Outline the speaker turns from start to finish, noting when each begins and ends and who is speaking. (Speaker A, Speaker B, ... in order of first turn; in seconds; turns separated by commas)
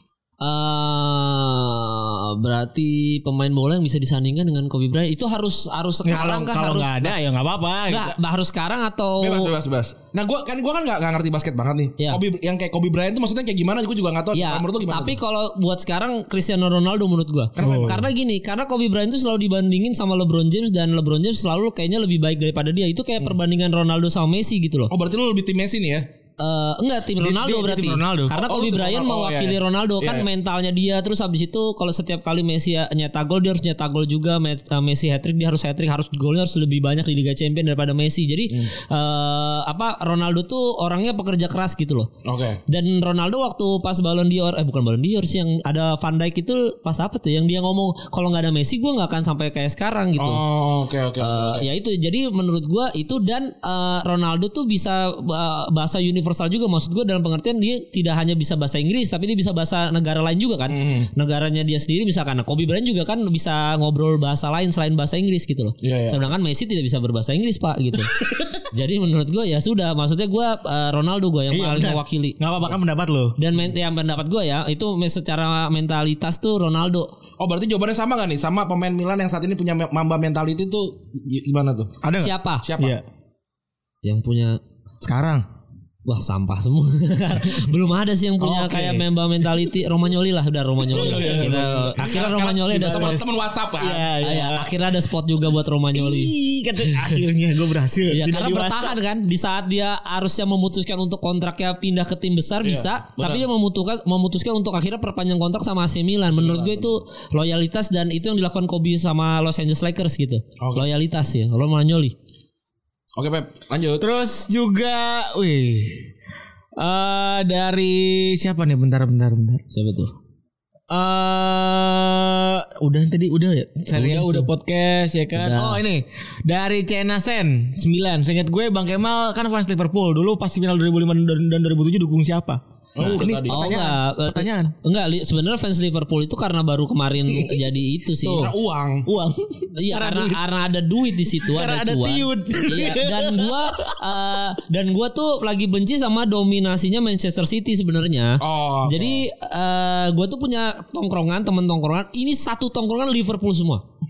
Speaker A: 0.4-7.2, Speaker B: 6.0-8.1, Speaker A: 7.9-9.5, Speaker C: 9.2-15.2, Speaker A: 14.3-24.9, Speaker C: 17.6-18.1, Speaker B: 17.6-18.0, Speaker C: 24.9-26.1, Speaker A: 26.4-42.1, Speaker B: 27.2-28.3, Speaker C: 28.4-30.3, Speaker C: 42.2-42.6, Speaker A: 42.7-50.4, Speaker C: 50.2-51.7, Speaker A: 51.2-68.1, Speaker C: 60.7-61.1, Speaker C: 65.8-66.2, Speaker A: 68.7-72.4, Speaker B: 71.5-73.3, Speaker A: 73.4-77.1, Speaker C: 77.4-81.9, Speaker B: 82.0-83.0, Speaker A: 82.2-82.7, Speaker C: 82.6-83.0, Speaker A: 84.0-84.6, Speaker B: 85.0-85.4, Speaker A: 86.0-93.2, Speaker B: 88.4-89.0, Speaker C: 90.9-94.1, Speaker B: 90.9-93.2, Speaker B: 93.8-94.7, Speaker A: 94.2-96.3, Speaker B: 95.9-99.0, Speaker A: 98.1-112.1, Speaker C: 102.6-103.4, Speaker C: 106.3-106.9, Speaker C: 110.6-110.9, Speaker C: 113.2-114.0, Speaker B: 114.0-116.0, Speaker B: 116.8-119.6, Speaker A: 119.7-120.1, Speaker B: 120.9-134.7, Speaker A: 123.9-124.5, Speaker A: 125.4-125.8, Speaker C: 132.9-133.7, Speaker A: 133.0-138.5, Speaker B: 137.3-137.6, Speaker B: 138.2-138.5, Speaker C: 138.3-139.1, Speaker B: 139.0-140.4, Speaker A: 139.8-153.8, Speaker B: 141.4-143.9, Speaker C: 148.4-149.2